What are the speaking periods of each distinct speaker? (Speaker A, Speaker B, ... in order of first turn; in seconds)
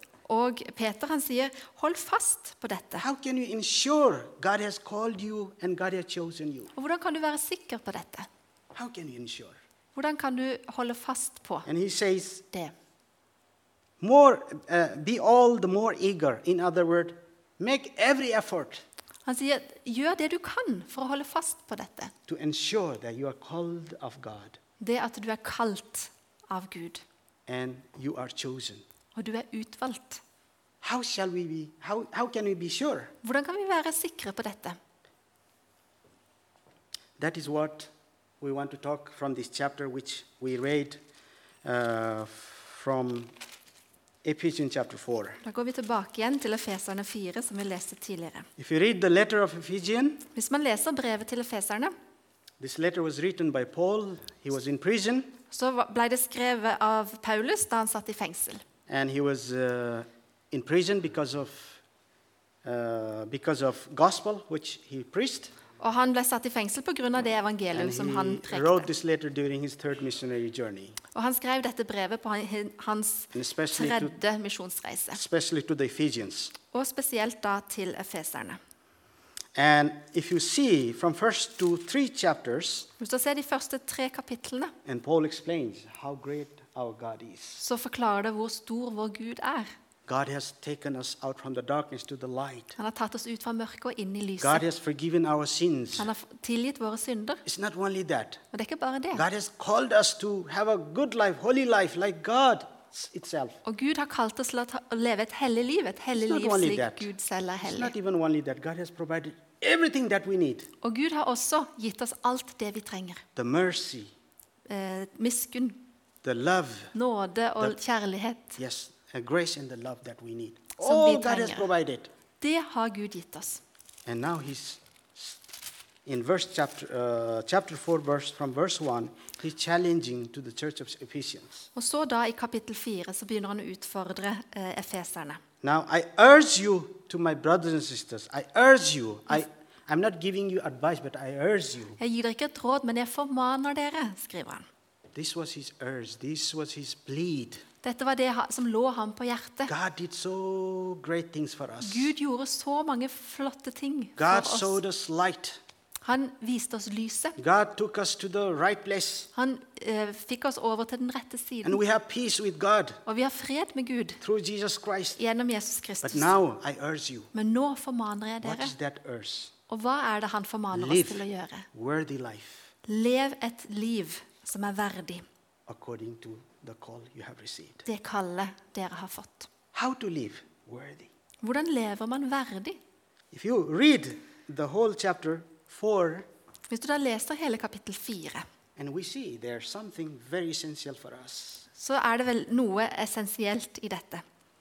Speaker A: 0.3-3.0, 6.7-8.3, 9.9-11.7, 19.2-22.1, 24.8-27.0, 29.1-30.2, 33.2-34.8, 45.4-48.5, 50.3-51.9, 55.5-58.6, 65.8-68.9, 71.1-75.2, 76.7-78.6, 83.0-84.7, 87.6-89.7, 92.8-94.6, 96.0-97.4, 98.5-99.2, 103.6-107.9, 110.8-113.2, 114.7-115.8, 116.9-118.6, 120.8-121.7, 122.4-123.6, 131.7-135.4, 142.0-144.7, 147.8-149.7, 151.8-154.8, 156.0-157.4, 159.3-161.8, 163.1-164.2, 165.2-166.3, 167.3-168.7, 169.7-171.7, 172.8-175.2, 177.8-179.5, 181.4-182.8, 186.7-188.4, 191.8-194.2
Speaker B: 3.0-6.7, 8.7-9.6, 11.7-12.5, 14.0-18.8, 22.3-24.6, 27.5-28.8, 30.8-33.1, 37.2-41.0, 41.6-43.3, 44.2-45.4, 48.6-50.3, 52.6-55.3, 58.9-61.8, 62.6-65.5, 67.7-71.0, 73.3-74.1, 75.1-76.5, 79.5-82.9, 84.8-87.6, 90.1-92.8, 94.4-96.1, 97.4-98.4, 99.1-103.6, 106.1-110.7, 113.3-114.1, 116.2-116.9, 118.6-122.1, 124.0-125.4, 126.0-131.7, 135.6-142.0, 145.1-147.6, 149.7-152.1, 154.2-155.6, 157.4-159.3, 161.6-163.0, 164.2-165.2, 166.0-167.3, 168.4-169.5, 170.7-172.7, 175.7-177.8, 179.7-181.1, 183.3-186.3, 188.8-191.7